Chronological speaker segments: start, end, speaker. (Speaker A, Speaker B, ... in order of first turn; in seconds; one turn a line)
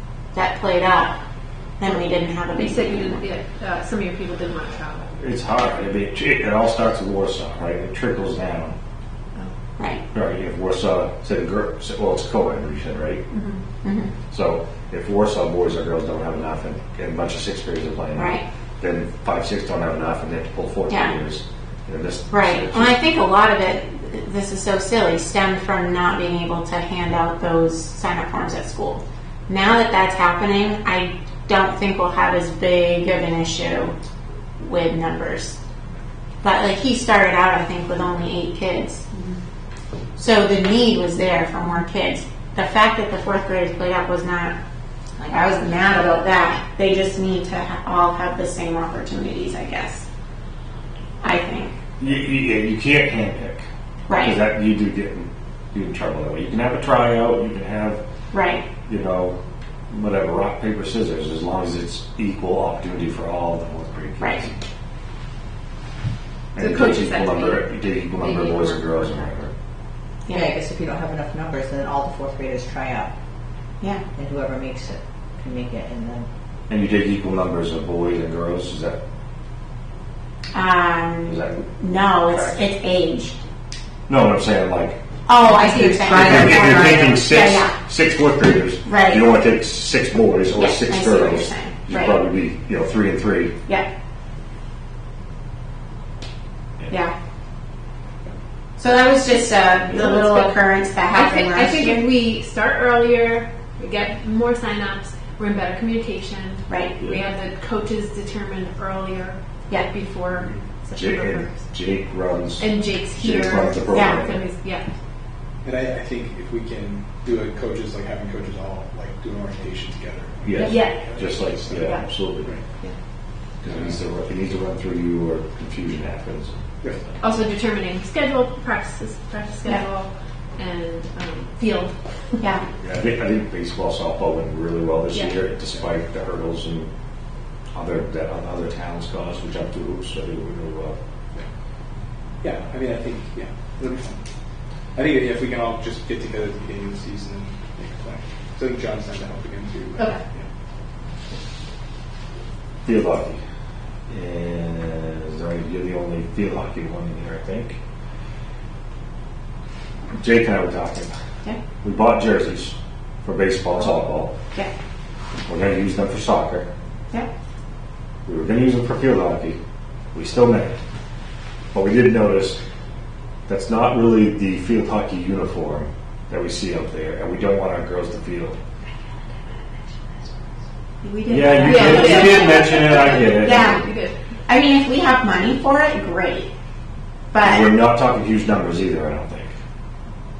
Speaker A: 0.3-1.2
Speaker A: 1.8-3.2
Speaker B: 2.5-5.1
Speaker C: 5.1-8.8
Speaker A: 9.8-10.0
Speaker C: 10.1-13.2
Speaker B: 13.3-13.6
Speaker A: 13.8-14.1
Speaker C: 14.3-23.0
Speaker A: 18.2-18.4
Speaker A: 20.9-21.1
Speaker A: 22.3-34.0
Speaker A: 34.6-35.6
Speaker A: 36.4-39.0
Speaker A: 40.2-44.5
Speaker D: 45.2-45.9
Speaker A: 45.3-50.0
Speaker A: 51.2-51.8
Speaker C: 52.0-58.0
Speaker A: 54.1-54.4
Speaker A: 58.3-58.6
Speaker C: 58.9-59.4
Speaker C: 59.9-64.6
Speaker C: 66.5-69.5
Speaker B: 66.6-69.2
Speaker D: 70.3-73.1
Speaker D: 74.1-76.3
Speaker C: 76.7-79.0
Speaker A: 80.5-83.4
Speaker C: 81.2-81.8
Speaker C: 82.3-82.6
Speaker C: 84.1-85.0
Speaker A: 85.3-87.8
Speaker D: 85.4-87.1
Speaker C: 86.1-93.5
Speaker A: 88.8-89.3
Speaker A: 90.5-92.2
Speaker A: 96.9-97.1
Speaker A: 98.8-102.0
Speaker B: 100.0-100.6
Speaker B: 101.1-111.5
Speaker A: 106.7-107.0
Speaker C: 111.0-114.4
Speaker B: 112.6-114.9
Speaker A: 113.9-114.2
Speaker E: 115.6-121.9
Speaker C: 120.5-122.5
Speaker C: 123.6-127.1
Speaker E: 123.6-124.0
Speaker B: 127.2-132.0
Speaker C: 132.8-136.9
Speaker C: 137.7-141.0
Speaker E: 142.4-144.2
Speaker E: 144.9-150.5
Speaker C: 152.8-153.4
Speaker C: 154.1-157.8
Speaker C: 160.2-161.1
Speaker C: 161.8-164.3
Speaker C: 165.5-166.7
Speaker C: 168.2-169.6
Speaker C: 170.1-170.8
Speaker C: 171.7-172.6
Speaker C: 173.5-178.6
Speaker B: 181.0-184.1
Speaker A: 181.2-182.4
Speaker C: 181.3-183.8
Speaker A: 183.4-183.8
Speaker A: 184.5-186.5
Speaker A: 187.3-187.7
Speaker C: 187.4-189.5